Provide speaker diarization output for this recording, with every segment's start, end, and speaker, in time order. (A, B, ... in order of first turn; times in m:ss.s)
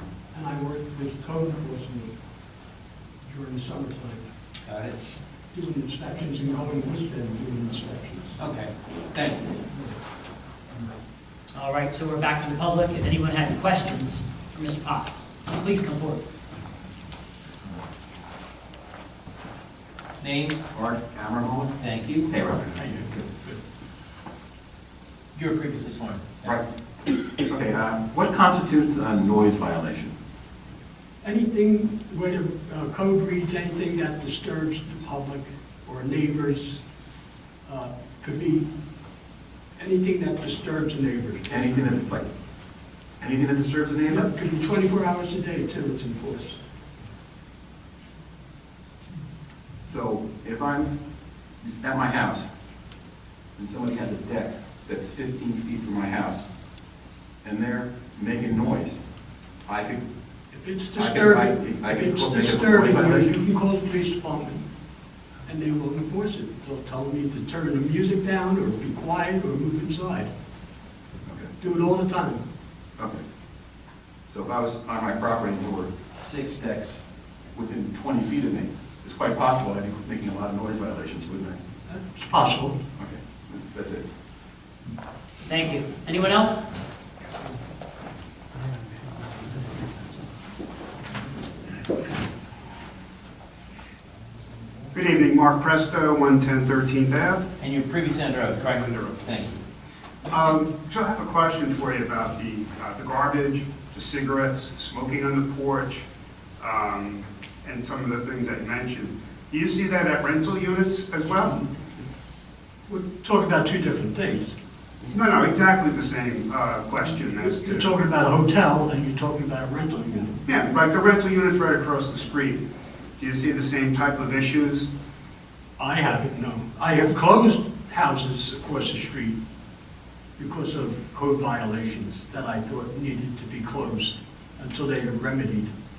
0:00.3-0:02.1 A
0:03.2-0:04.2 A
0:04.6-0:05.0 B
0:05.5-0:08.4 A
0:08.4-0:09.6 B
0:11.5-0:16.2 C
0:20.2-0:20.6 B
0:20.7-0:21.7 D
0:21.8-0:22.4 B
0:22.3-0:22.8 D
0:22.8-0:23.6 A
0:25.3-0:26.6 B
0:26.4-0:26.7 D
0:27.4-0:30.1 D
0:31.2-0:36.8 A
0:37.6-0:38.7 A
0:39.8-0:42.0 A
0:41.5-0:42.3 D
0:43.2-0:44.3 D
0:44.1-0:46.6 A
0:49.8-0:50.9 D
0:51.6-0:52.5 D
0:53.6-0:56.5 D
0:57.4-0:59.0 D
0:59.7-1:00.0 D
1:00.5-1:04.6 A
1:01.0-1:03.4 D
1:05.4-1:10.3 A
1:11.3-1:11.5 D
1:11.6-1:12.4 A
1:14.3-1:21.6 D
1:21.9-1:22.8 A
1:23.0-1:24.0 D
1:25.4-1:26.6 C
1:34.9-1:37.5 E
1:37.6-1:39.6 B
1:38.7-1:39.4 E
1:40.2-1:46.1 E
1:46.6-1:51.6 E
1:52.9-1:54.5 A
1:55.1-1:57.9 E
1:57.4-2:00.4 A
2:00.5-2:02.6 E
2:03.2-2:04.9 E
2:05.8-2:09.4 A
2:10.4-2:15.7 A